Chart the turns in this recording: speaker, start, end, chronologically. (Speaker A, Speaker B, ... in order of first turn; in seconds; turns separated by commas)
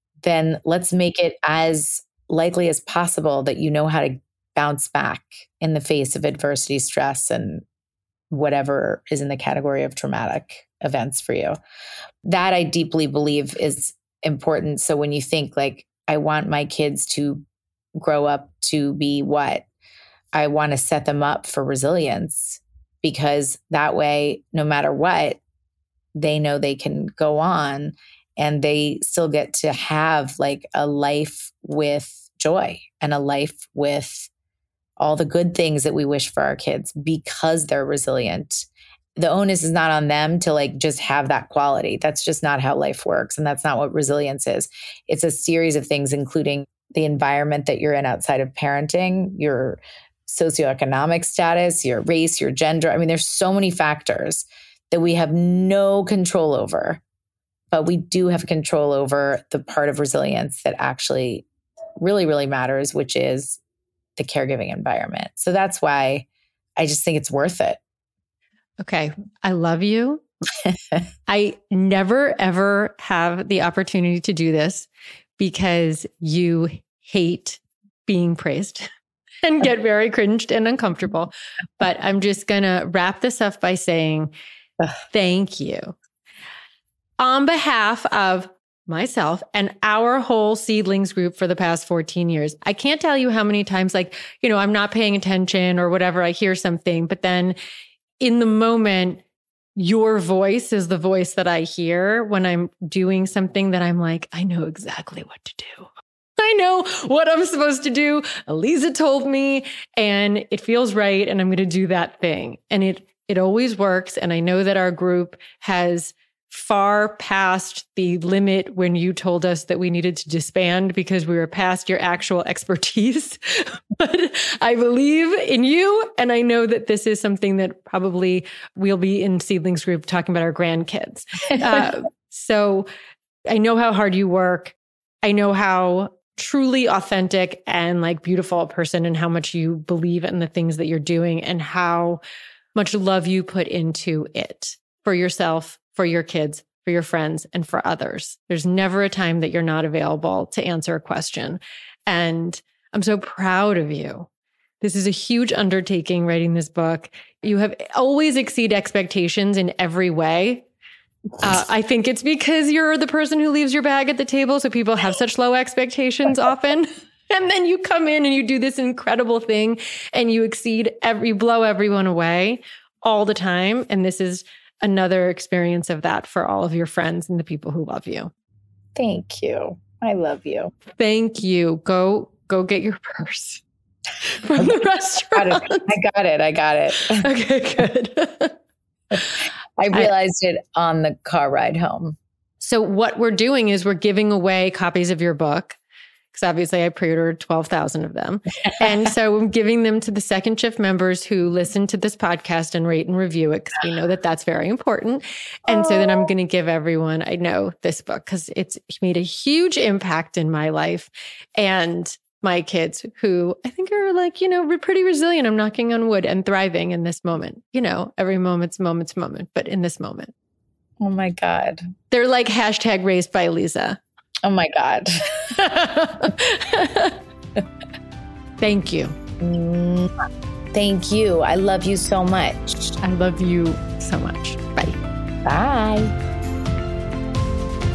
Speaker A: 0.2-7.6, Speaker A: 8.3-11.6, Speaker A: 12.2-17.4, Speaker A: 18.0-19.7, Speaker A: 20.3-25.4, Speaker A: 26.1-34.3, Speaker A: 35.0-57.0, Speaker A: 57.7-61.4, Speaker A: 62.0-63.6, Speaker A: 64.2-66.2, Speaker A: 66.8-67.8, Speaker B: 68.8-70.2, Speaker B: 71.3-78.9, Speaker B: 79.4-84.3, Speaker B: 85.1-86.0, Speaker B: 87.2-97.5, Speaker B: 98.2-99.2, Speaker B: 99.8-132.9, Speaker B: 133.5-142.2, Speaker B: 142.7-154.3, Speaker B: 154.8-160.7, Speaker B: 161.4-178.3, Speaker A: 178.9-180.7, Speaker B: 181.0-183.6, Speaker B: 184.2-185.9, Speaker A: 185.3-187.2, Speaker B: 187.0-188.6, Speaker A: 189.8-192.2, Speaker B: 192.6-195.8, Speaker B: 196.3-220.3, Speaker A: 205.7-206.2, Speaker A: 221.0-221.8, Speaker B: 222.1-224.0, Speaker A: 224.4-225.5, Speaker B: 225.4-227.2, Speaker B: 228.6-229.2, Speaker A: 229.4-230.1, Speaker A: 230.7-233.0, Speaker B: 233.0-235.0, Speaker A: 235.4-236.1